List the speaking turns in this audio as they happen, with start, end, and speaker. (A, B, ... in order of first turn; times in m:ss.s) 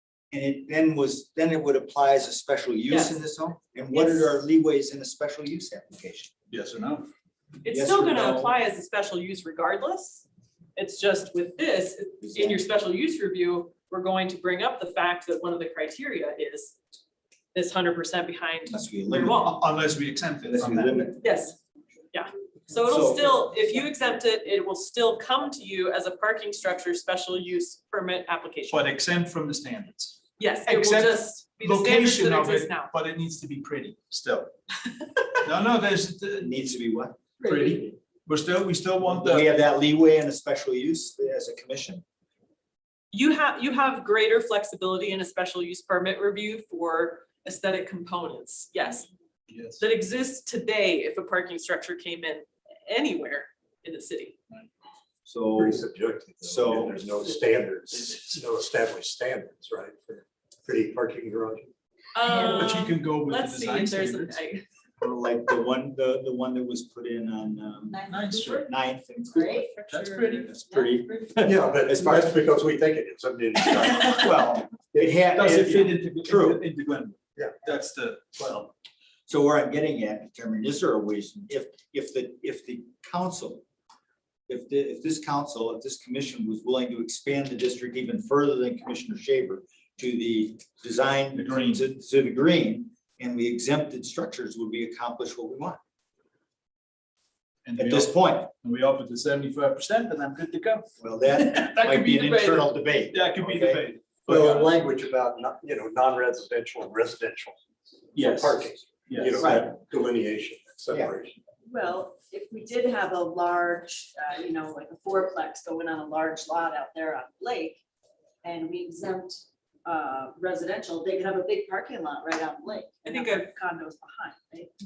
0:00.3-0:06.3 A
0:02.9-0:03.2 B
0:03.9-0:04.4 B
0:06.5-0:07.1 C
0:07.6-0:16.8 B
0:07.6-0:08.5 A
0:12.2-0:12.6 A
0:17.5-0:19.5 B
0:18.7-0:19.5 A
0:19.1-0:21.1 C
0:20.5-0:21.2 A
0:21.2-0:21.6 B
0:22.1-0:28.9 B
0:22.8-0:23.6 A
0:28.7-0:34.5 C
0:30.4-0:32.9 B
0:35.4-0:36.5 C
0:36.4-0:37.7 A
0:37.4-0:39.5 C
0:39.0-0:42.0 A
0:43.1-0:49.1 B
0:49.5-0:49.8 C
0:49.8-0:54.4 B
0:55.2-0:55.8 A
0:55.5-1:01.7 D
0:56.4-0:57.0 A
0:57.9-0:58.4 C
1:02.1-1:04.6 B
1:02.2-1:04.4 C
1:05.0-1:09.8 A
1:07.9-1:08.7 E
1:08.1-1:08.7 C
1:09.3-1:11.5 E
1:09.9-1:10.5 C
1:10.4-1:12.3 A
1:11.4-1:14.3 D
1:14.0-1:16.6 A
1:15.3-1:18.6 C
1:18.4-1:18.7 D
1:19.3-1:23.6 A
1:24.5-1:35.8 A
1:31.3-1:31.8 C
1:37.6-1:44.8 C
1:37.8-1:38.5 A
1:41.0-1:43.9 A
1:44.3-1:47.6 D
1:48.1-1:49.7 C
1:48.1-1:51.4 D
1:49.4-1:49.7 A
1:50.9-1:51.2 A
1:51.6-1:57.8 E
1:58.4-2:04.7 E
2:03.0-2:03.5 B